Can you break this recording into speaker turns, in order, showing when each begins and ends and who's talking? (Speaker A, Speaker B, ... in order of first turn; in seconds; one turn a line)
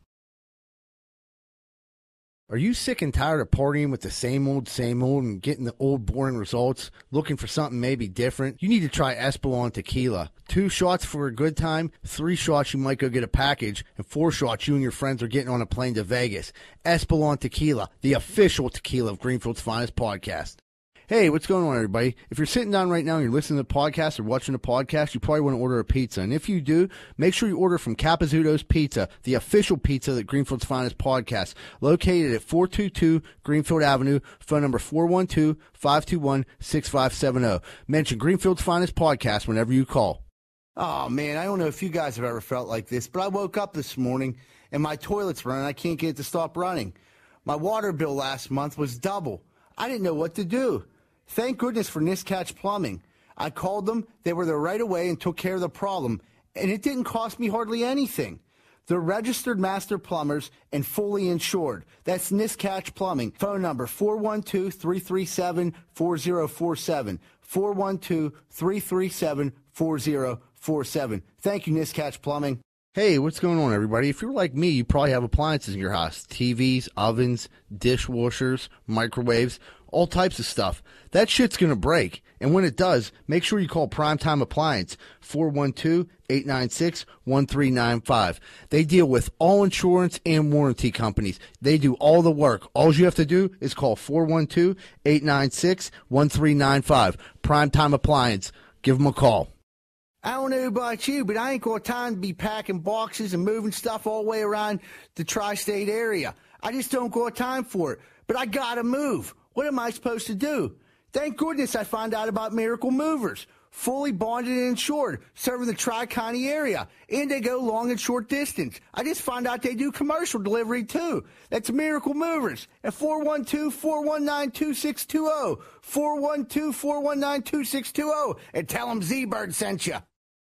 Speaker A: 2.5-40.2
Speaker A: 40.8-99.5
Speaker A: 100.2-130.0